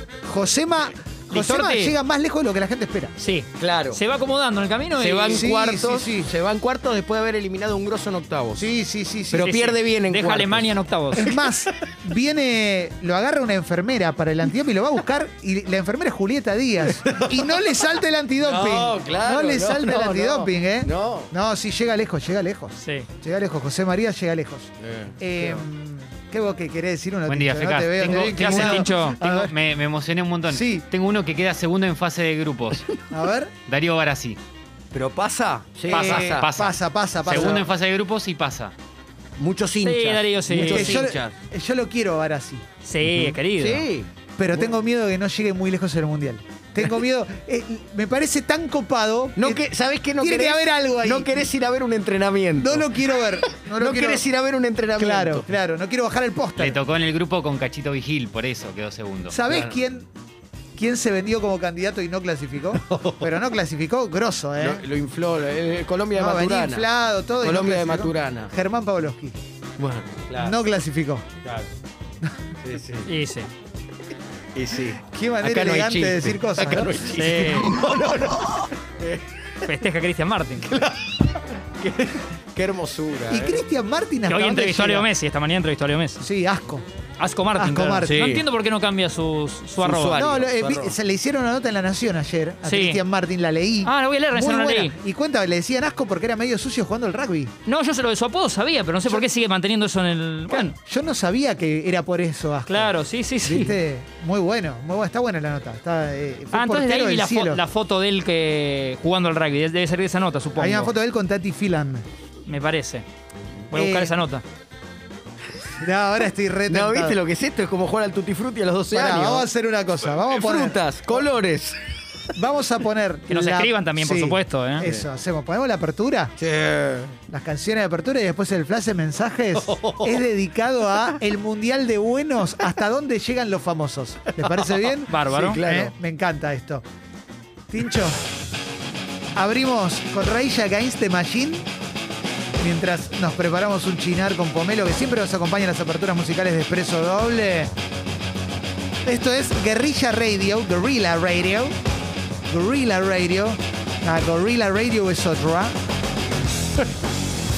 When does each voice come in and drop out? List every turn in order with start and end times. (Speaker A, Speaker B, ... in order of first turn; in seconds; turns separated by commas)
Speaker A: 0.2-3.1, Speaker B: 1.3-1.9, Speaker B: 3.2-5.4, Speaker C: 3.6-4.0, Speaker C: 5.0-8.6, Speaker A: 5.3-6.3, Speaker A: 8.6-9.5, Speaker C: 9.3-11.9, Speaker B: 9.4-11.2, Speaker A: 11.1-29.5, Speaker C: 17.0-17.7, Speaker C: 18.4-21.3, Speaker B: 22.8-23.1, Speaker C: 24.8-25.6, Speaker D: 27.3-33.0, Speaker B: 28.0-29.2, Speaker A: 30.5-30.9, Speaker A: 33.1-33.5, Speaker D: 33.7-34.4, Speaker C: 34.9-36.5, Speaker A: 35.9-37.7, Speaker D: 35.9-38.7, Speaker C: 37.2-37.6, Speaker C: 39.4-41.3, Speaker B: 39.8-41.0, Speaker A: 40.5-42.6, Speaker B: 42.8-43.8, Speaker C: 43.2-44.1, Speaker A: 44.4-49.6, Speaker C: 49.4-55.5, Speaker A: 50.2-51.5, Speaker A: 52.6-54.2, Speaker A: 55.0-56.8, Speaker D: 56.6-59.4, Speaker A: 59.3-60.1, Speaker C: 59.5-59.8, Speaker A: 60.8-64.8, Speaker C: 62.8-63.4, Speaker C: 64.6-66.9, Speaker A: 66.1-69.4, Speaker C: 67.4-68.5, Speaker C: 69.8-70.6, Speaker A: 70.3-71.3, Speaker C: 71.4-71.7, Speaker C: 72.6-73.1, Speaker B: 73.0-73.5, Speaker C: 74.5-79.6, Speaker A: 75.0-77.0, Speaker B: 77.1-77.7, Speaker B: 79.7-80.7, Speaker C: 80.6-83.6, Speaker A: 83.3-85.1, Speaker B: 84.2-86.2, Speaker A: 86.2-86.8, Speaker B: 87.2-90.2, Speaker A: 87.5-88.3, Speaker C: 88.0-88.4, Speaker C: 89.8-90.9, Speaker A: 90.1-97.5, Speaker B: 92.6-93.0, Speaker B: 93.8-94.9, Speaker B: 97.7-100.8, Speaker A: 100.5-107.6, Speaker B: 102.7-103.8, Speaker B: 106.5-110.9, Speaker A: 110.5-112.0, Speaker B: 112.5-113.0, Speaker B: 113.7-114.4, Speaker A: 113.7-114.1, Speaker A: 115.8-117.2, Speaker C: 116.7-119.5, Speaker A: 118.9-121.2, Speaker C: 120.2-121.8, Speaker A: 122.3-126.3, Speaker B: 123.3-124.8, Speaker C: 124.8-125.0, Speaker C: 126.4-127.2, Speaker A: 127.3-136.8, Speaker C: 129.6-130.2, Speaker C: 134.3-135.9, Speaker B: 135.1-135.6, Speaker A: 137.7-138.3, Speaker A: 139.3-141.7, Speaker A: 142.6-147.7, Speaker A: 149.0-151.8, Speaker A: 152.5-155.8